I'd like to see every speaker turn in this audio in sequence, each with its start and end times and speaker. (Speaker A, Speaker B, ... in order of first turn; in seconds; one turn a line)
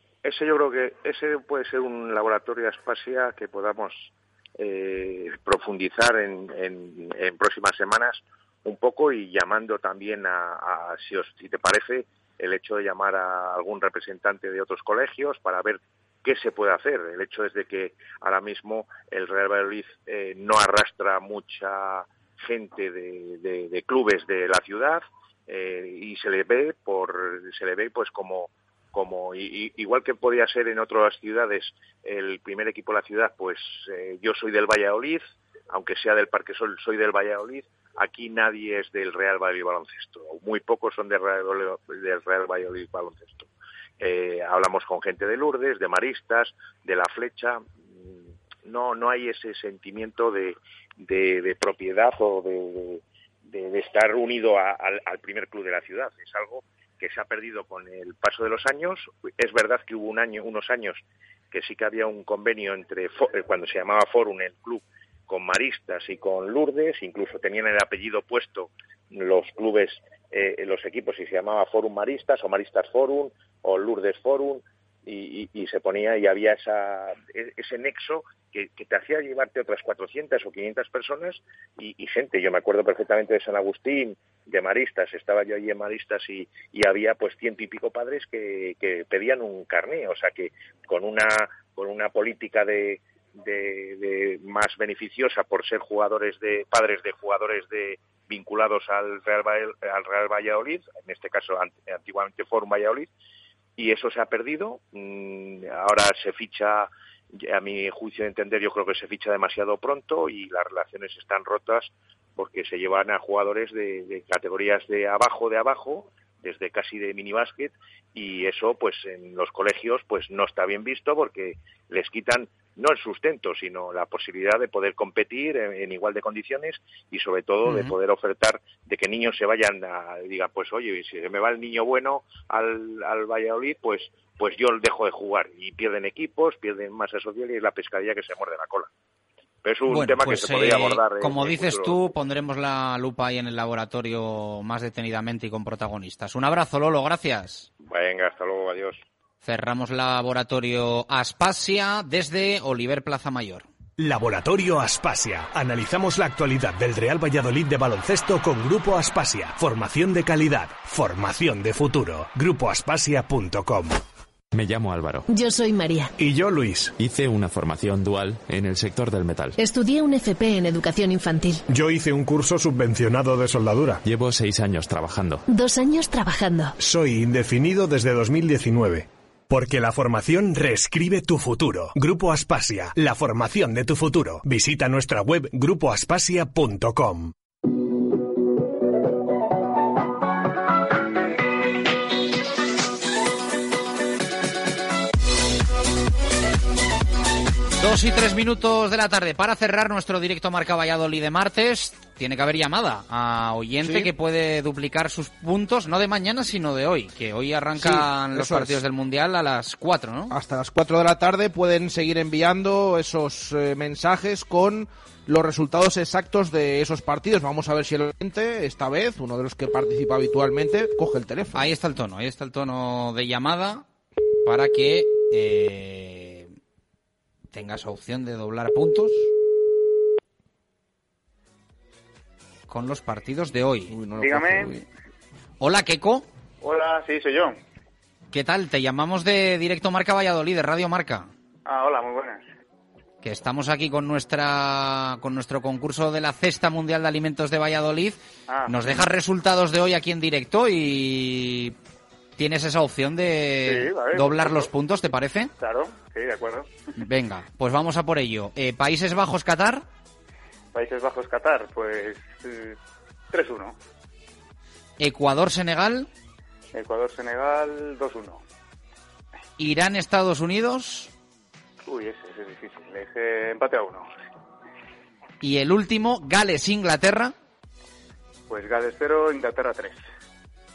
Speaker A: 0.2-43.5
Speaker A: 44.0-103.1
Speaker A: 103.8-138.9
Speaker B: 127.7-127.9
Speaker A: 139.6-142.0
Speaker B: 139.9-147.7
Speaker A: 147.8-149.0
Speaker B: 149.4-153.6
Speaker C: 154.0-164.0
Speaker D: 164.5-165.2
Speaker E: 165.3-166.1
Speaker C: 166.2-166.9
Speaker D: 167.0-169.6
Speaker E: 169.6-171.6
Speaker C: 171.7-174.0
Speaker D: 174.0-175.4
Speaker E: 175.5-176.7
Speaker C: 176.8-187.3
Speaker B: 197.8-210.3
Speaker F: 203.8-204.1
Speaker F: 207.8-208.8
Speaker F: 210.3-221.7
Speaker B: 221.5-223.8
Speaker B: 224.4-226.5
Speaker B: 227.5-229.3
Speaker B: 232.7-233.9
Speaker F: 233.9-234.8
Speaker G: 234.2-234.7
Speaker B: 235.6-236.3
Speaker G: 236.6-237.6
Speaker B: 238.3-241.3
Speaker G: 241.7-242.4
Speaker B: 243.2-251.7
Speaker G: 248.5-249.0
Speaker B: 252.4-255.5
Speaker G: 253.6-254.7
Speaker G: 255.6-256.7
Speaker B: 257.0-259.8
Speaker G: 260.7-262.8
Speaker G: 263.3-263.7
Speaker B: 265.0-266.1
Speaker G: 266.7-268.4
Speaker B: 269.6-271.1
Speaker G: 271.8-274.1
Speaker B: 275.4-277.3
Speaker G: 278.5-280.0